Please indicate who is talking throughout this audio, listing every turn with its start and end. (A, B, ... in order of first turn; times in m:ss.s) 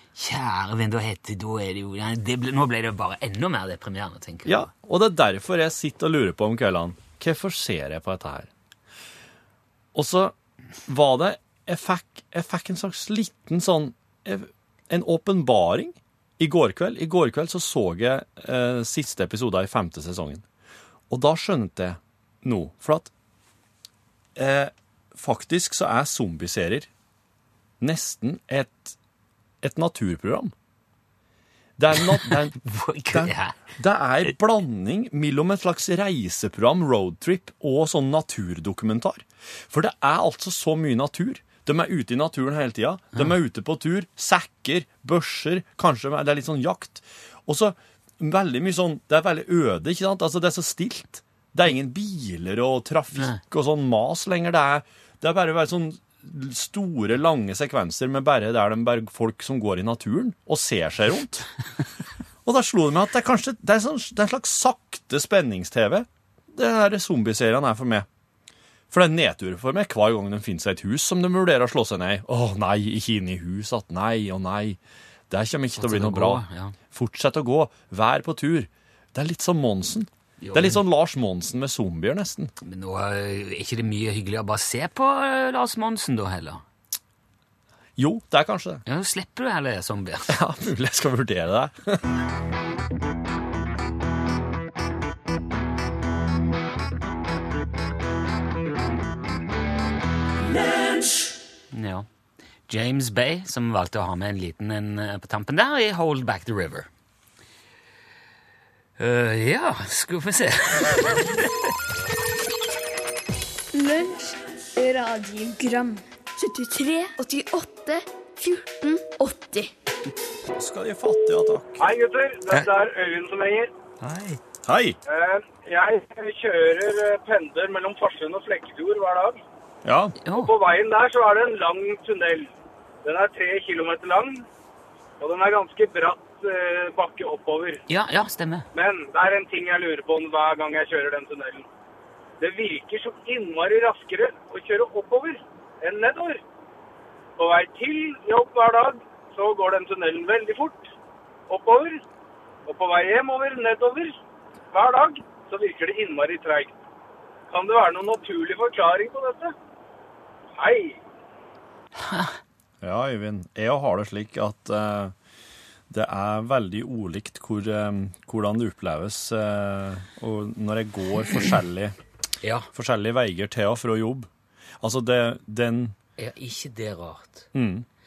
0:00.2-0:04.7 A
0:04.4-0:08.5 B
0:09.9-0:10.3 B
0:10.8-0:20.4 B
0:21.1-0:23.1 B
0:24.4-0:26.9 B
0:27.8-0:29.0 B
0:29.6-0:30.5 B
0:31.8-0:32.6 B
0:31.9-0:33.6 A
0:33.1-1:01.5 B
0:53.1-0:53.4 A
1:02.4-1:08.1 B
1:08.9-1:14.8 B
1:15.3-1:22.5 B
1:15.8-1:16.7 A
1:20.4-1:20.8 A
1:22.6-1:26.6 A
1:28.0-1:28.8 B
1:28.8-1:30.4 A
1:30.3-1:32.1 B
1:41.7-1:42.0 A
1:42.7-1:46.9 A
1:49.0-1:51.7 A
1:53.7-1:59.7 C
2:00.5-2:01.9 B
2:01.8-2:03.7 D
2:04.0-2:04.4 A
2:04.6-2:05.0 B
2:05.1-2:09.4 D
2:09.8-2:10.2 B
2:10.2-2:10.5 A
2:10.4-2:12.5 D
2:13.0-2:14.4 D
2:15.2-2:17.8 D
2:17.9-2:18.6 A
2:18.7-2:21.7 D
2:22.4-2:26.4 D
2:27.4-2:30.8 D
2:31.5-2:32.0 D
2:32.7-2:34.2 D
2:34.7-2:36.7 D
2:37.5-2:39.5 D
2:40.6-2:41.0 D
2:42.0-2:42.4 A
2:42.8-2:45.1 B
2:45.9-2:51.9 B
2:52.4-2:52.7 A
2:52.7-2:54.3 B
2:54.8-2:55.9 B
2:56.2-2:57.5 A
2:57.5-2:57.8 B